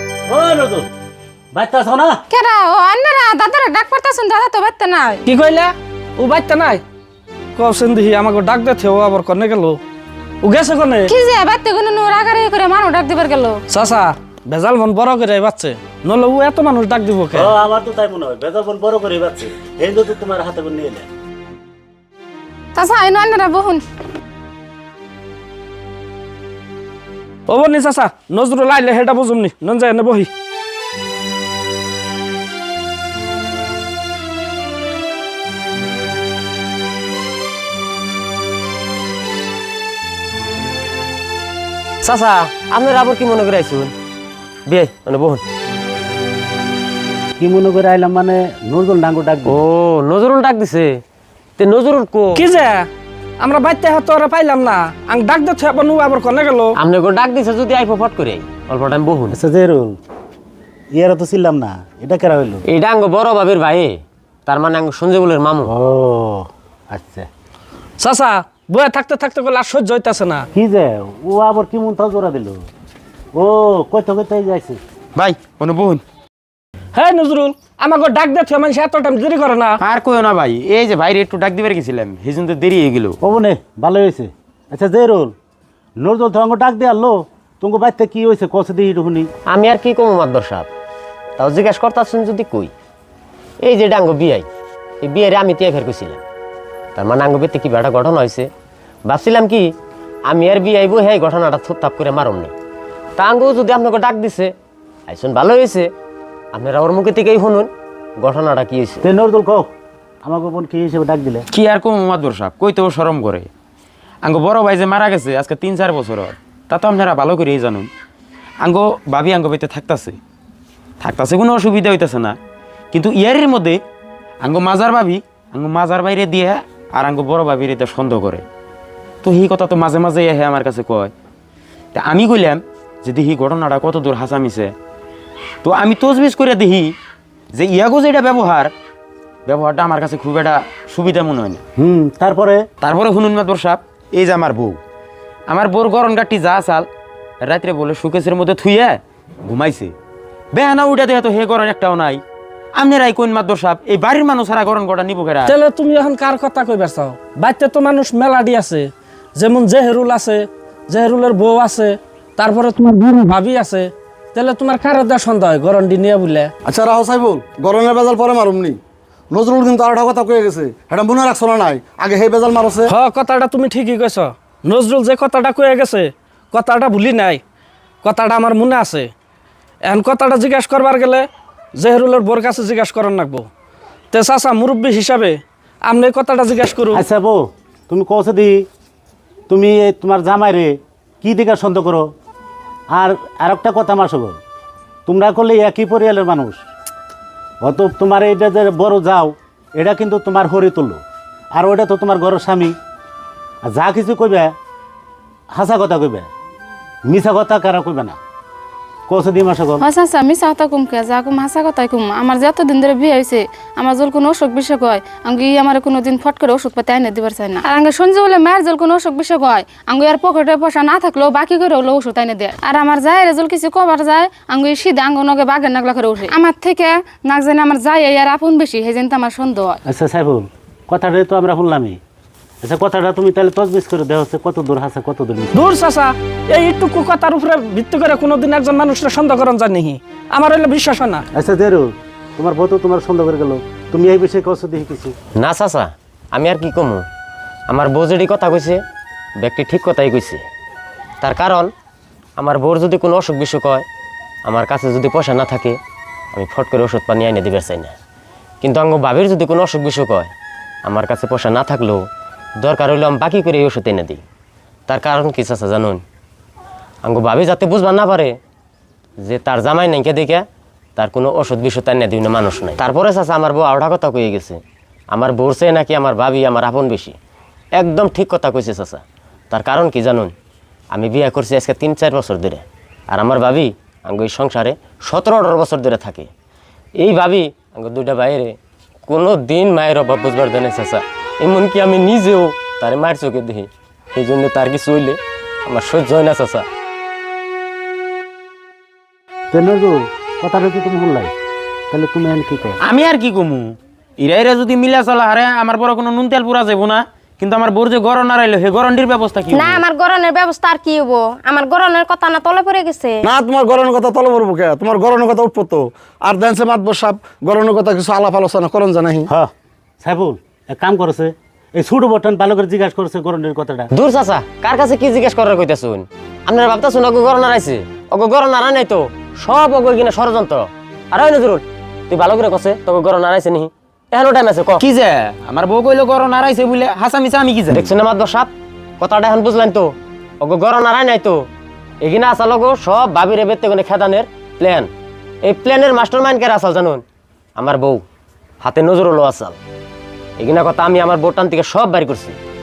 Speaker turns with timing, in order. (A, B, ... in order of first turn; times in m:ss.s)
0:00.3-0:00.9 A
0:01.5-0:02.2 A
0:02.3-0:05.2 B
0:05.3-0:06.8 C
0:07.6-0:09.8 C
0:10.4-0:11.1 C
0:11.1-0:13.6 B
0:13.7-0:17.5 C
0:17.3-0:21.1 A
0:22.7-0:23.8 B
0:27.5-0:30.3 C
0:42.0-0:43.9 D
0:44.7-0:45.4 D
0:47.4-0:49.6 A
0:49.5-0:51.0 D
0:51.6-0:52.4 D
0:52.3-0:52.9 C
0:53.4-0:56.8 C
0:56.8-0:59.3 D
0:59.3-1:00.0 A
1:00.9-1:02.6 A
1:02.7-1:03.9 D
1:04.4-1:05.7 D
1:05.6-1:07.3 A
1:08.0-1:10.5 C
1:10.5-1:12.6 A
1:13.3-1:14.8 A
1:15.1-1:16.0 E
1:16.9-1:19.8 C
1:19.8-1:23.2 E
1:23.2-1:25.3 A
1:26.0-1:29.3 A
1:29.5-1:30.7 D
1:31.4-1:32.7 D
1:33.6-1:34.5 D
1:35.0-1:36.2 D
1:37.0-1:38.5 D
1:39.1-1:39.6 D
1:40.3-1:42.5 D
1:43.2-1:44.5 D
1:45.1-1:45.9 D
1:46.5-1:49.0 D
1:49.0-1:49.7 A
1:50.2-1:51.4 A
1:51.5-1:53.5 E
1:54.2-1:57.9 E
1:58.6-2:00.2 E
2:01.0-2:02.4 E
2:02.9-2:03.8 E
2:04.4-2:08.4 E
2:09.2-2:11.1 E
2:11.9-2:14.7 E
2:15.6-2:16.9 E
2:17.5-2:18.7 E
2:19.4-2:21.6 E
2:21.8-2:22.6 A
2:22.8-2:24.8 E
2:25.5-2:26.9 E
2:27.4-2:29.9 E
2:30.5-2:32.2 E
2:32.7-2:35.5 E
2:35.4-2:46.5 C
2:46.6-2:48.8 F
2:49.3-2:52.9 F
2:52.9-2:57.4 C
2:58.0-2:59.1 C
2:59.8-3:03.5 C
3:04.1-3:07.0 C
3:06.9-3:08.7 A
3:09.5-3:12.1 A
3:12.9-3:14.4 A
3:15.0-3:16.6 A
3:17.6-3:21.0 A
3:21.5-3:22.7 A
3:23.6-3:24.5 A
3:25.5-3:26.3 A
3:27.0-3:28.2 A
3:29.1-3:29.8 A
3:29.8-3:49.8 B
3:49.8-3:52.0 A
3:52.6-3:55.6 A
3:55.5-4:01.2 C
4:01.3-4:05.1 A
4:05.4-4:07.0 D
4:07.7-4:08.8 D
4:09.4-4:10.4 D
4:11.2-4:11.7 D
4:12.4-4:13.8 D
4:14.4-4:15.8 D
4:16.3-4:18.0 D
4:18.6-4:20.3 D
4:20.8-4:22.0 D
4:22.6-4:24.2 D
4:24.9-4:26.0 D
4:27.0-4:28.3 D
4:29.2-4:30.4 D
4:31.0-4:34.6 D
4:35.1-4:37.2 D
4:37.8-4:40.3 D
4:40.9-4:46.3 D
4:47.0-4:48.5 D
4:49.1-4:56.6 D
4:59.5-5:01.3 A
5:01.9-5:02.8 A
5:02.8-5:09.8 E
5:09.5-5:13.2 G
5:13.2-5:19.3 F
5:19.3-5:23.9 A
5:23.9-5:34.8 D
5:34.8-5:37.9 E
5:37.7-5:39.9 D
5:40.4-5:41.4 D
5:42.0-5:44.9 D
5:45.4-5:47.0 D
5:47.6-5:48.0 D
5:48.6-5:49.6 D
5:50.4-5:52.4 D